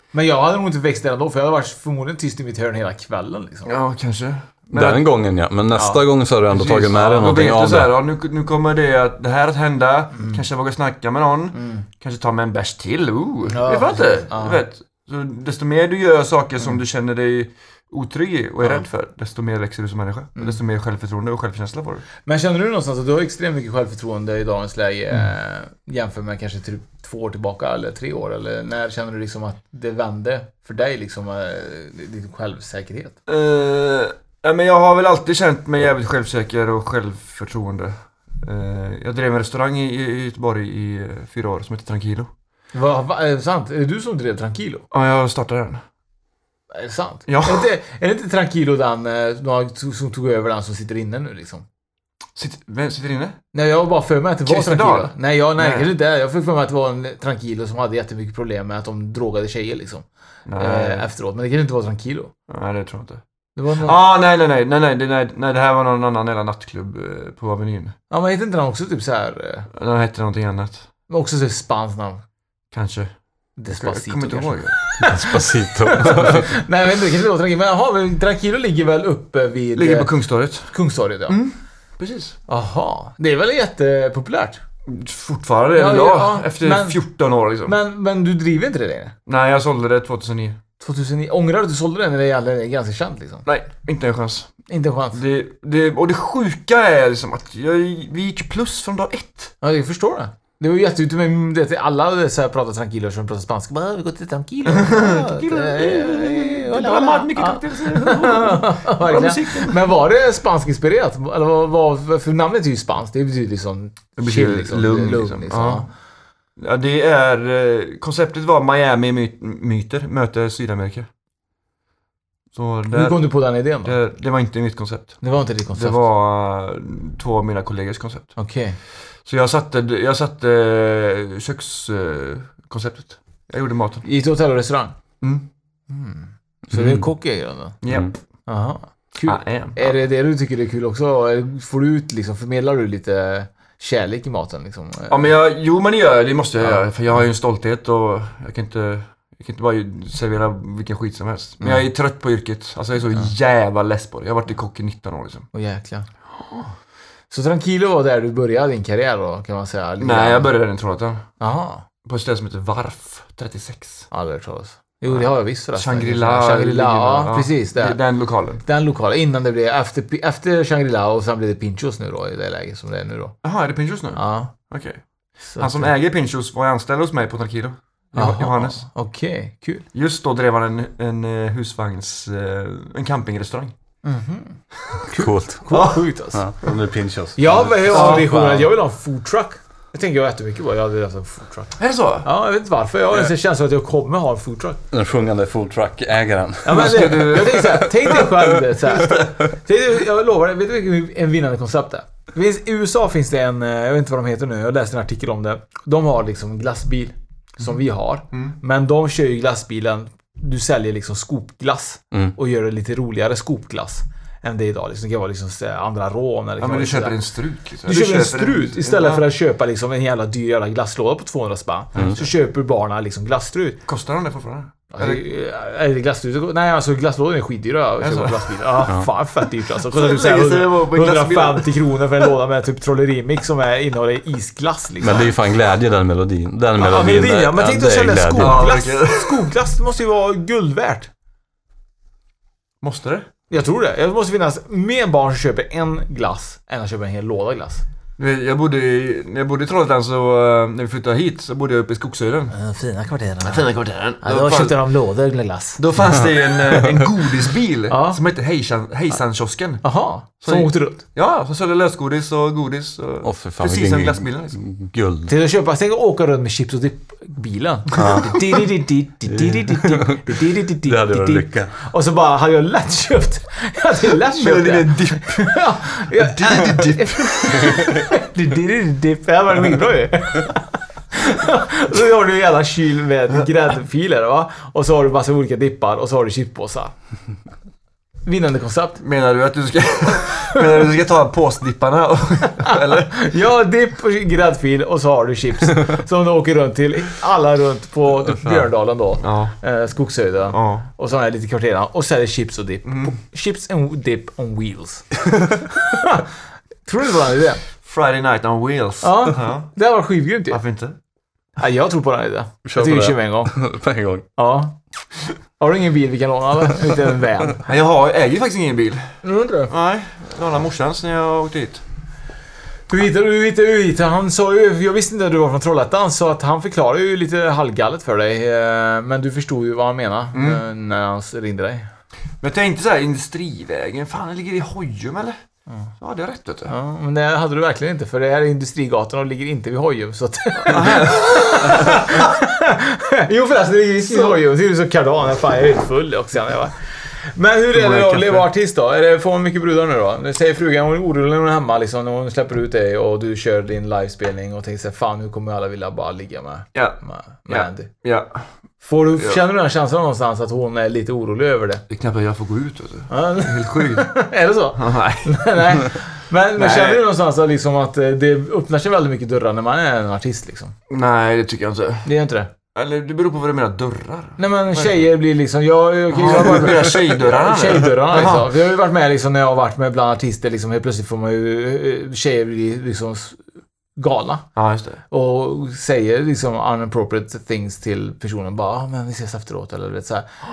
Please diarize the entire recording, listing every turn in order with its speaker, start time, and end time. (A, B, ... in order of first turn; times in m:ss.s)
0:00.1-0:03.7 A
0:03.7-0:05.0 B
0:04.7-0:07.9 C
0:05.7-0:06.0 A
0:06.5-0:22.1 B
0:11.5-0:11.9 A
0:13.5-0:14.6 A
0:22.2-0:33.2 A
0:33.3-0:42.3 B
0:42.7-0:44.8 A
0:44.9-0:45.8 B
0:46.7-0:51.6 A
0:47.3-0:47.7 B
0:52.4-0:53.4 B
0:53.5-1:00.0 A
0:54.5-0:55.9 B
1:00.5-1:01.1 B
1:00.6-1:02.3 A
1:02.5-1:03.2 B
1:03.6-1:04.0 A
1:03.8-1:08.0 B
1:08.1-1:09.7 A
1:09.7-1:10.9 B
1:11.1-1:12.2 A
1:12.7-1:13.1 B
1:13.6-1:20.1 A
1:13.7-1:14.8 B
1:15.0-1:16.5 C
1:19.8-1:20.7 B
1:20.7-1:21.4 A
1:21.3-1:22.4 B
1:22.5-1:24.6 A
1:24.9-1:27.8 B
1:25.8-1:27.0 A
1:27.7-1:29.1 A
1:29.3-1:30.6 B
1:30.8-1:33.4 A
1:33.4-1:34.5 B
1:34.7-1:35.2 A
1:35.1-1:39.5 B
1:39.6-1:55.9 A
1:44.7-1:49.8 B
1:54.2-1:55.9 B
1:56.6-2:01.1 B
2:02.5-2:03.2 B
2:02.9-2:04.0 A
2:03.8-2:05.2 B
2:05.2-2:06.0 A
2:05.7-2:08.4 B
2:08.4-2:08.8 A
2:09.2-2:14.0 B
2:14.0-2:15.0 A
2:15.2-2:15.5 B
2:15.9-2:17.8 A
2:16.7-2:17.0 C
2:17.8-2:18.2 B
2:18.5-2:25.3 A
2:19.3-2:20.0 B
2:25.1-2:35.5 B
2:35.5-2:36.1 A
2:36.4-2:36.7 B
2:37.3-2:40.5 A
2:40.0-2:41.2 B
2:41.4-2:41.8 A
2:42.0-2:44.1 B
2:44.1-2:48.0 A
2:45.1-2:48.6 B
2:48.6-2:53.4 A
2:53.4-2:55.0 B
2:54.2-2:54.5 A
2:55.5-2:55.9 A
2:55.6-2:58.8 B
2:58.2-2:59.9 A
2:59.9-3:03.7 B
3:04.0-3:06.4 A
3:05.1-3:05.8 C
3:05.7-3:06.1 B
3:06.3-3:08.6 C
3:07.4-3:14.8 A
3:07.9-3:08.3 B
3:11.8-3:12.3 B
3:14.9-3:17.4 C
3:16.6-3:37.2 A
3:16.7-3:17.9 B
3:36.6-3:39.2 B
3:37.8-3:43.8 A
3:43.9-3:45.2 B
3:44.9-3:55.3 A
3:48.0-3:48.5 B
3:49.8-3:51.8 B
3:55.0-3:58.7 C
3:56.8-4:01.1 A
3:58.4-3:59.5 B
4:02.8-4:03.3 B
4:03.5-4:07.8 A
4:08.2-4:12.6 B
4:12.5-4:13.7 A
4:13.4-4:14.8 B
4:14.2-4:15.8 A
4:15.8-4:19.8 B
4:17.9-4:18.2 A
4:19.8-4:21.0 A
4:20.4-4:24.6 B
4:23.2-4:25.3 C
4:25.3-4:46.9 A
4:28.0-4:28.4 B
4:28.0-4:28.4 C
4:29.3-4:31.7 C
4:34.4-4:35.6 B
4:36.2-4:37.9 B
4:48.3-4:49.0 A
4:49.0-4:53.2 B
4:52.6-5:05.1 A
4:59.2-4:59.6 B
5:00.5-5:00.9 B
5:02.8-5:03.1 B
5:05.7-5:06.3 A
5:06.8-5:07.6 A
5:07.8-5:09.7 B
5:09.0-5:10.6 A
5:10.5-5:11.0 B
5:11.6-5:13.5 A
5:12.7-5:14.3 C
5:14.4-5:14.8 A
5:15.6-5:17.7 A
5:17.6-5:19.2 B
5:19.2-5:19.7 A
5:19.7-5:21.8 B
5:22.9-5:31.9 A
5:30.3-5:30.6 B
5:32.4-5:35.4 B
5:36.0-5:36.7 B
5:36.7-5:57.9 A
5:40.6-5:42.3 B
5:47.7-5:48.5 B
5:57.5-5:58.4 B
5:58.8-6:01.8 A
6:01.9-6:04.1 B
6:03.1-6:10.7 A
6:04.8-6:05.8 B
6:06.6-6:07.0 B
6:10.9-6:12.1 B
6:12.0-6:12.5 A
6:12.7-6:15.0 B
6:14.4-6:23.4 A
6:16.1-6:18.5 B
6:24.0-6:24.5 A
6:24.6-6:25.0 B
6:25.1-6:30.3 A